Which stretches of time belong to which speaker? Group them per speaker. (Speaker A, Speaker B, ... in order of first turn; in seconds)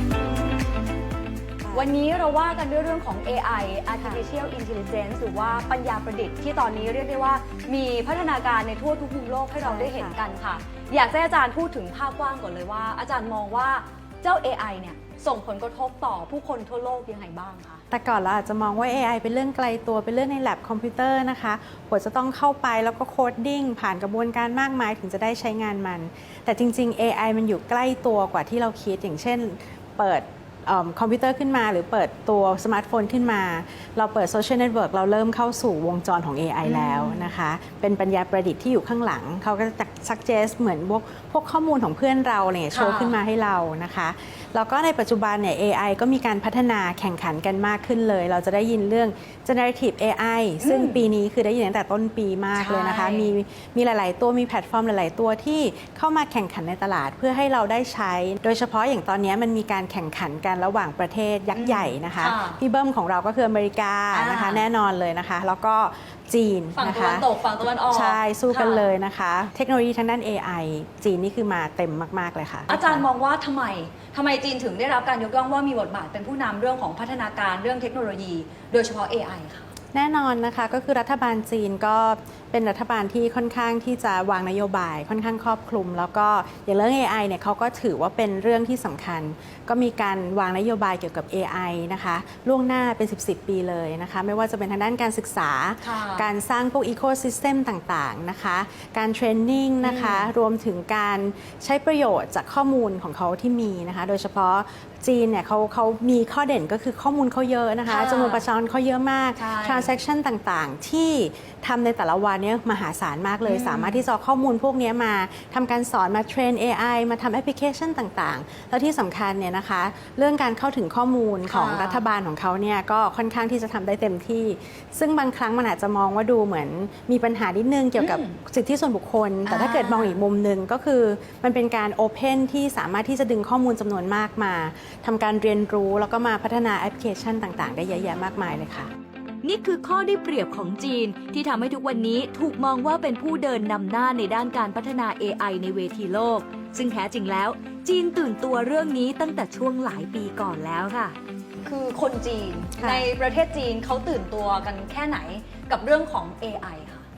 Speaker A: 1.6-1.9, 4.0-4.2, 9.6-10.2, 17.9-67.3, 67.9-73.1, 79.9-138.9, 152.8-153.1
Speaker B: 1.7-17.8, 36.6-37.4, 42.7-43.2, 50.6-51.0, 52.5-53.3, 61.5-62.6, 64.1-64.7, 66.8-68.9, 72.7-79.7, 95.8-96.3, 99.8-100.3, 107.9-108.4, 109.4-109.9, 113.5-114.0, 121.5-122.0, 128.0-128.4, 129.4-130.2, 151.6-157.1
Speaker C: 139.4-151.2